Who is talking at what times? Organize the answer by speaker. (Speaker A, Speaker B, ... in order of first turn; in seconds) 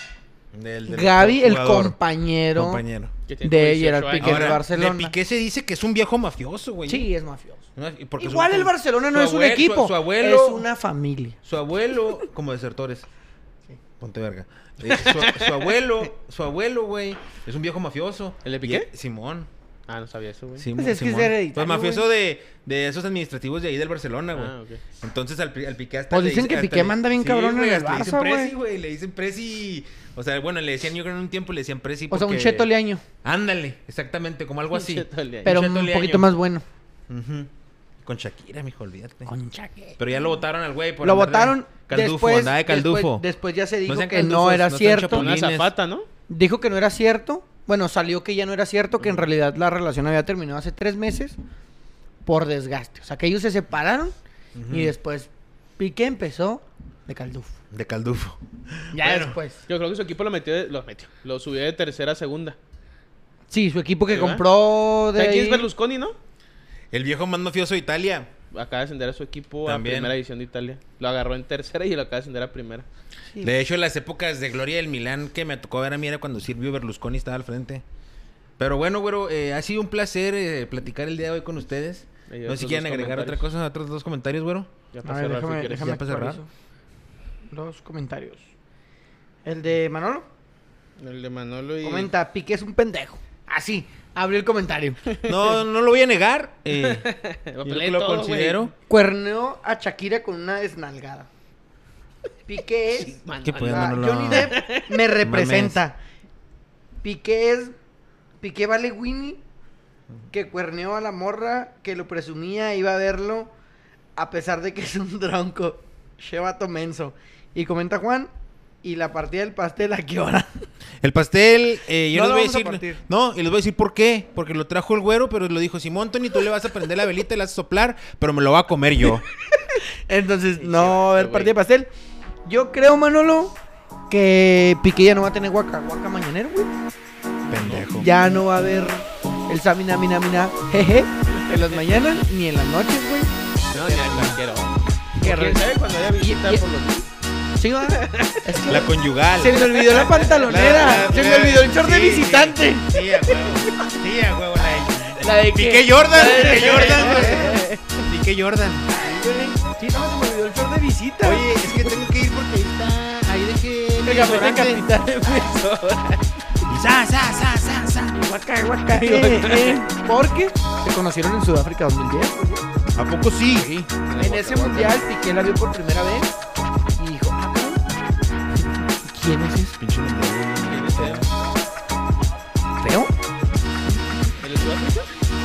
Speaker A: 0.5-2.0, 2.5-3.1, 4.2-7.1, 7.8-10.7, 11.4-13.1, 14.0-19.5, 20.6-32.7, 33.2-36.3, 37.1-37.5, 38.0-39.3, 40.0-43.2, 43.9-45.7, 54.5-54.9, 57.7-59.4, 66.9-68.3, 69.6-70.1, 73.4-77.8, 78.6-84.7, 85.7-86.4, 95.2-97.1, 97.6-98.7, 103.4-104.5, 105.2-105.8, 121.0-129.2, 137.5-138.1, 148.7-149.7, 150.4-158.9, 161.2-164.8, 166.6-168.2, 172.9-173.7, 179.8-181.3
Speaker B: 0.9-2.8, 3.4-5.1, 6.9-7.6, 8.2-11.4, 20.7-22.1, 26.1-28.5, 32.1-33.0, 35.4-36.6, 39.3-40.0, 41.0-45.3, 46.3-51.4, 52.2-54.1, 54.7-57.5, 58.9-59.6, 63.5-65.7, 85.0-86.5, 87.5-88.5, 89.4-90.2, 91.8-95.1, 98.9-101.3, 102.5-106.0, 107.0-107.7, 108.4-109.4, 110.3-113.5, 114.2-118.3, 118.8-120.7, 122.1-123.0, 129.7-131.9, 132.4-133.6, 134.1-136.7, 137.9-144.4, 145.2-145.6, 146.2-146.6, 147.6-153.0, 155.0-157.7, 158.9-161.9, 164.0-165.5, 168.1-172.7, 173.5-176.3, 177.0-177.8, 178.9-179.8, 182.8-183.1
Speaker C: 3.3-4.6, 14.9-15.7, 18.4-18.9, 19.9-20.7, 24.3-24.8, 34.7-35.5, 45.1-46.1, 59.7-62.6, 64.1-64.4, 65.1-66.2, 68.5-72.8, 82.3-83.4, 84.9-86.0, 91.0-92.1, 95.2-95.5, 96.7-98.7, 102.9-105.0, 130.6-131.5, 137.4-137.8, 141.4-142.1, 143.7-147.1, 147.9-148.6, 149.5-151.1, 156.3-157.8, 164.4-166.2, 168.9-169.8, 174.1-175.0, 180.7-181.4, 184.4-185.1